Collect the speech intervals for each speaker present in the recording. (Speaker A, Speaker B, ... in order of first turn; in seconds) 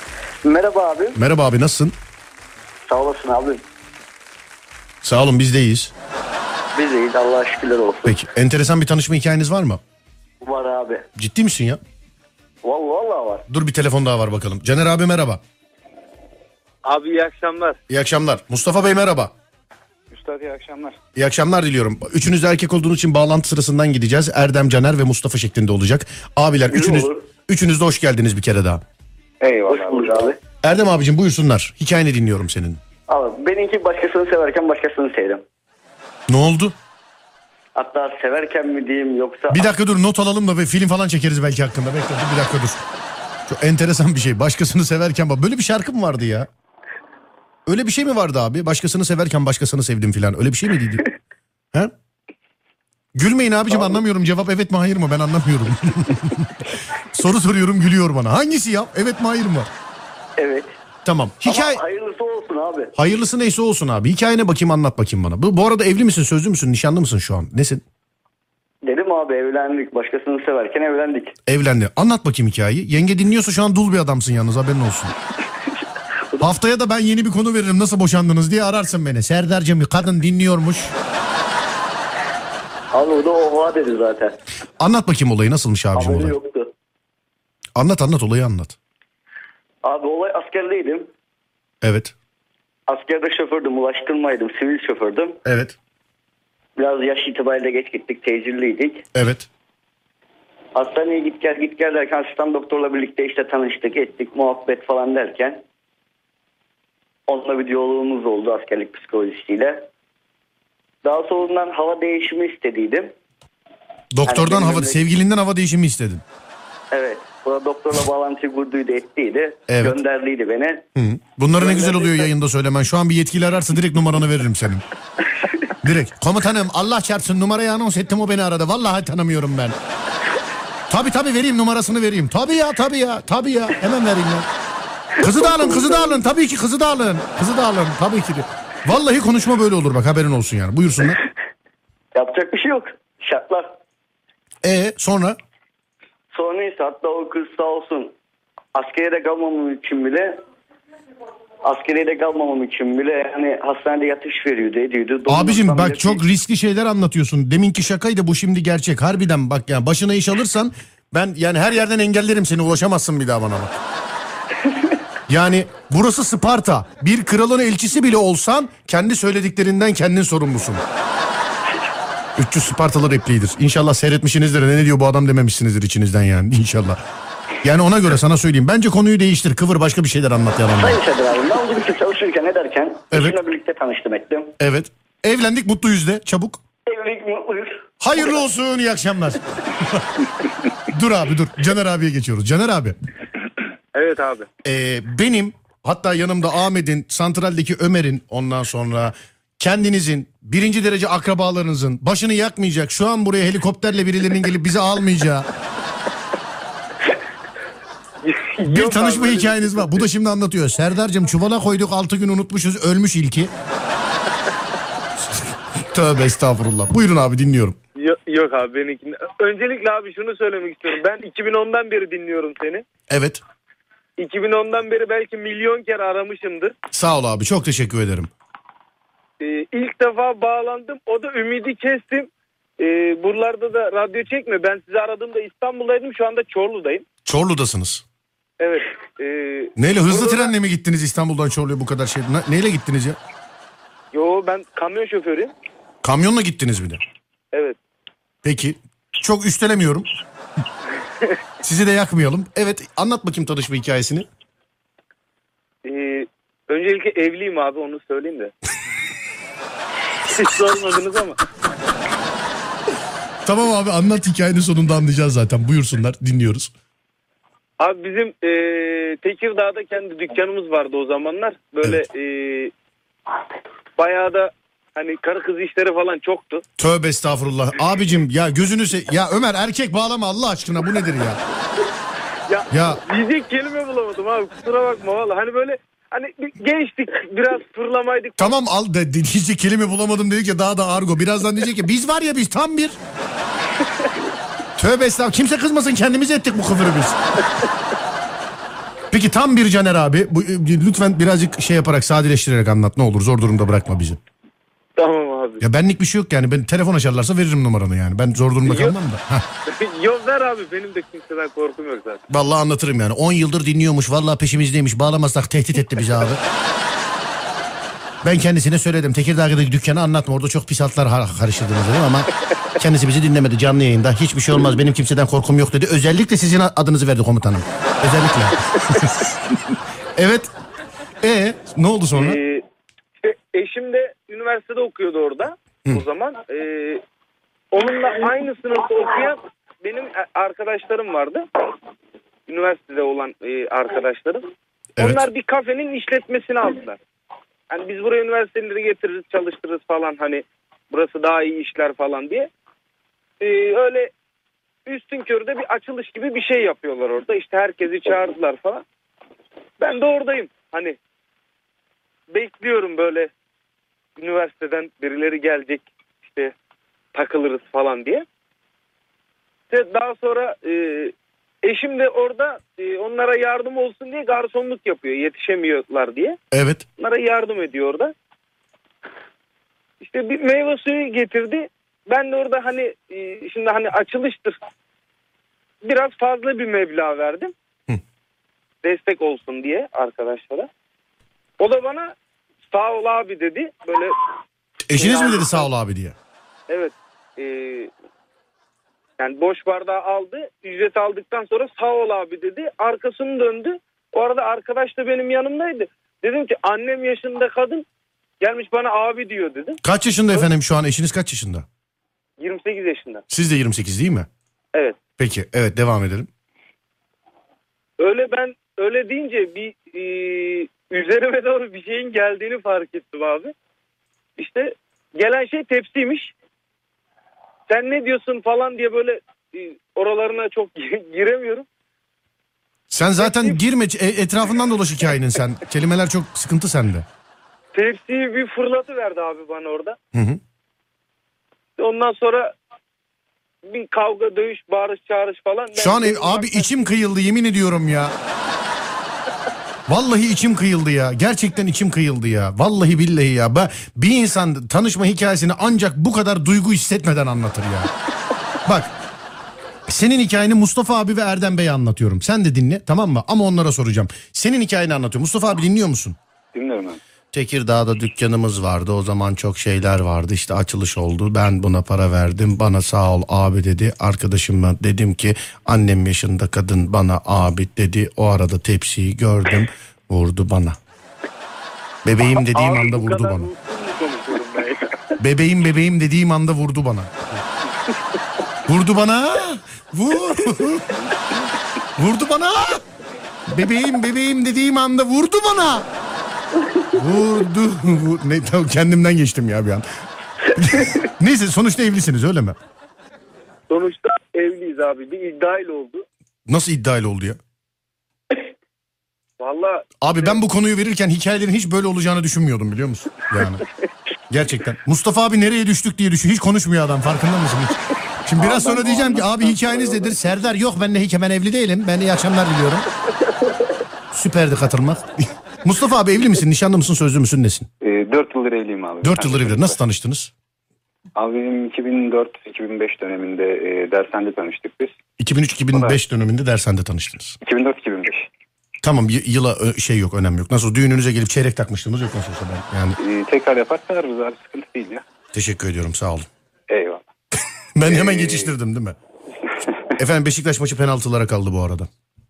Speaker A: 0.4-1.2, 2.9-3.6, 6.7-8.2, 10.4-11.1, 12.6-13.4, 26.7-27.3, 29.7-30.4, 33.1-35.4, 37.8-39.7, 53.7-54.0, 60.4-60.7, 61.5-62.9, 68.8-71.3, 82.9-84.4, 86.0-86.7, 89.8-91.1, 92.9-95.4, 96.8-99.0, 100.8-105.6, 107.3-109.9, 111.0-113.1, 114.3-115.0, 116.9-120.9, 121.6-122.3, 135.2-136.2, 142.2-143.7, 146.3-148.2, 148.8-150.4, 151.7-156.2, 180.8-184.6, 186.9-187.9
Speaker B: 1.2-1.9, 5.0-5.9, 8.1-9.8, 11.2-11.8, 13.5-15.4, 17.9-19.3, 21.1-28.8, 30.6-32.8, 36.3-36.8, 39.5-42.8, 43.5-46.5, 47.7-51.1, 53.1-59.7, 61.0-61.8, 63.0-67.8, 71.5-75.2, 76.4-81.0, 84.8-86.4, 87.8-88.8, 91.8-92.1, 95.5-95.8, 99.2-99.5, 114.2-116.2, 119.7-120.0, 121.0-124.8, 125.8-129.8, 130.9-134.5, 135.2-141.2, 144.6-145.4, 155.3-163.8, 165.3-170.8, 172.4-177.0, 177.6-181.0, 183.1-183.4, 184.6-186.6, 188.0-190.3, 190.9-193.0, 194.6-205.5, 208.6-213.5, 215.3-217.8, 223.1-223.4, 226.9-228.3, 237.2-238.0, 239.8-243.2, 246.0-247.0, 248.4-250.1, 251.6-254.3, 263.4-266.7, 276.8-281.4, 282.7-283.0, 288.4-293.0, 294.8-297.2, 299.1-304.2, 305.6-309.4, 312.3-316.4, 318.2-329.6, 330.2-330.5, 331.2-332.4, 345.0-345.2, 376.5-376.9, 394.9-396.1, 409.8-411.7, 413.3-414.3, 415.2-416.3, 432.9-437.1, 440.1-440.4, 445.8-448.1, 449.9-457.9, 458.7-458.9, 459.9-466.2, 467.3-480.8, 482.0-483.5, 485.2-487.4, 488.7-491.0, 492.0-492.8, 493.5-495.9, 496.9-499.8, 500.5-502.6, 506.5-507.4, 510.0-513.6, 514.3-522.9, 524.1-525.1, 525.6-527.7, 529.0-530.3, 535.2-537.4, 538.8-543.0, 545.3-546.3, 547.8-549.0, 550.0-551.9
Speaker C: 16.8-17.8, 193.9-194.5, 208.2-210.1, 218.0-222.8, 224.2-226.8, 229.4-237.1, 238.6-240.5, 244.1-245.5, 255.8-258.5, 260.3-261.4, 267.8-272.7, 274.0-276.6, 282.5-288.5, 305.0-305.6, 308.6-308.9, 309.7-312.2, 332.1-332.6, 333.2-337.0, 337.7-341.4, 342.5-344.4, 345.0-347.0, 347.7-352.5, 353.4-354.1, 354.9-358.8, 359.8-361.0, 362.3-363.3, 364.2-366.5, 367.1-368.2, 369.7-376.4, 377.0-378.1, 380.0-384.6, 385.8-387.5, 388.8-390.7, 391.6-392.1, 392.7-394.2, 395.0-395.7, 396.7-397.9, 399.2-407.9, 408.4-409.8, 412.4-413.2, 414.7-415.0, 418.0-423.5, 424.4-426.3, 427.7-431.7, 433.2-433.6, 437.7-440.0, 441.8-442.5, 443.6-446.9, 482.4-485.2, 503.7-506.1, 509.4-510.4
Speaker D: 20.1-21.0, 29.4-30.3, 466.5-467.0, 518.6-519.3, 527.8-529.8, 531.2-534.9, 535.7-536.0, 537.4-538.3, 543.0-545.0, 546.7-547.0, 547.9-548.5